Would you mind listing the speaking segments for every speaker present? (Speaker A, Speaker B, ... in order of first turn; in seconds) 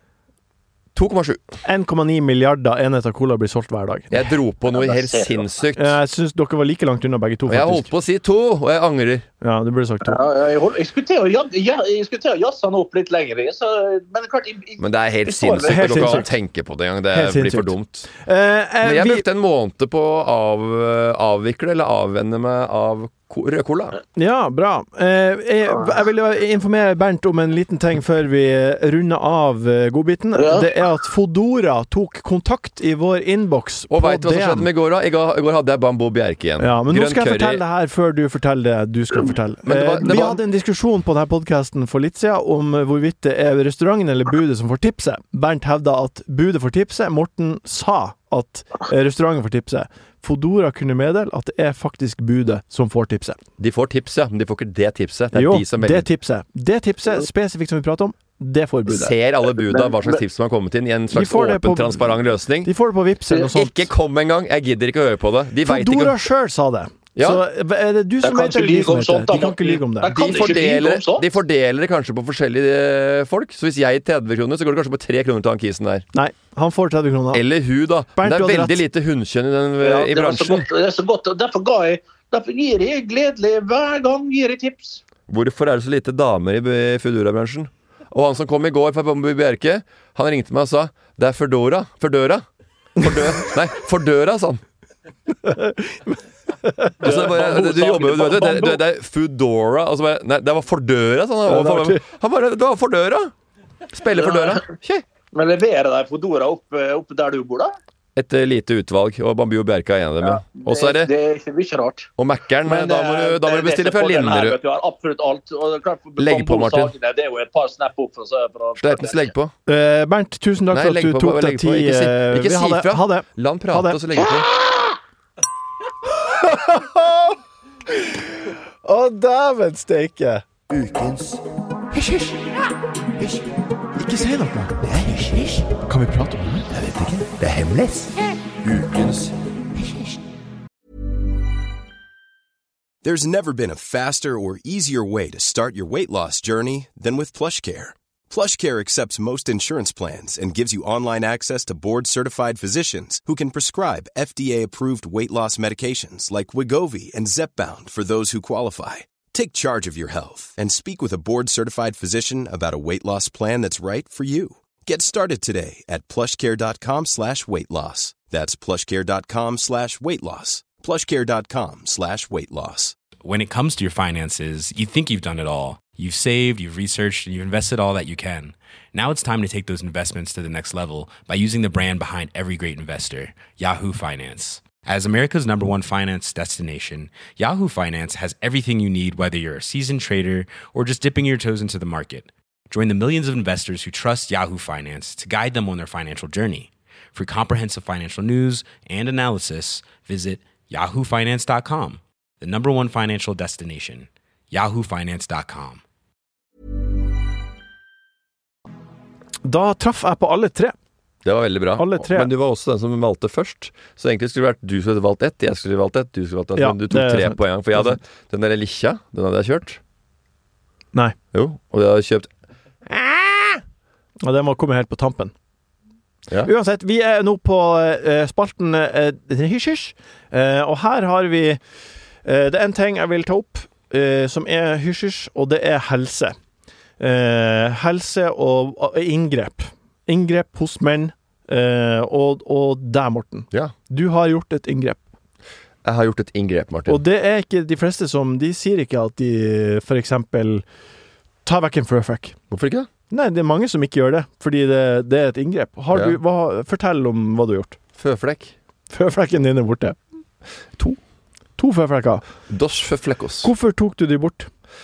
Speaker A: 0.9-1.4, 4.1-6.0, 7.5-9.2, 14.8-18.1, 18.8-24.0, 33.9-37.6, 39.6-40.4, 53.6-56.1, 58.9-62.7, 63.3-66.2, 67.1-67.4, 70.0-76.1, 77.3-80.7, 85.3-92.4, 93.0-94.6, 97.0-103.3, 103.9-105.0, 108.2-111.1, 112.2-114.6, 116.2-116.9, 118.8-119.5, 120.7-124.5, 130.7-132.6, 133.2-133.5, 134.7-135.8, 136.7-140.2, 211.2-219.8, 221.3-222.3, 222.8-223.6, 245.8-247.0, 252.5-252.9, 255.9-256.2, 257.9-258.5, 262.5-263.5
Speaker B: 1.6-4.2, 5.8-7.9, 9.4-10.2, 15.7-16.3, 17.1-19.2, 24.1-34.7, 36.6-53.4, 55.3-59.1, 61.1-63.9, 65.6-70.1, 76.1-77.4, 78.2-78.8, 95.4-97.1, 101.5-102.0, 119.7-124.0, 126.2-127.4, 127.9-130.4, 134.0-134.7, 135.8-136.7, 209.4-210.7, 211.8-212.3, 216.6-217.9, 224.2-225.3, 226.4-231.6, 232.2-236.3, 237.0-245.0, 246.9-250.6, 251.4-252.4, 253.1-257.8, 258.9-260.0, 261.6-262.2, 263.4-264.5
Speaker C: 4.7-5.4, 10.0-16.2, 30.3-30.7, 59.5-60.2, 68.2-71.3, 79.8-85.0, 97.0-98.8, 104.2-104.7, 105.3-107.7, 110.2-112.1, 112.6-119.3, 124.2-124.9
Speaker D: 143.0-172.9
Speaker E: 173.2-205.8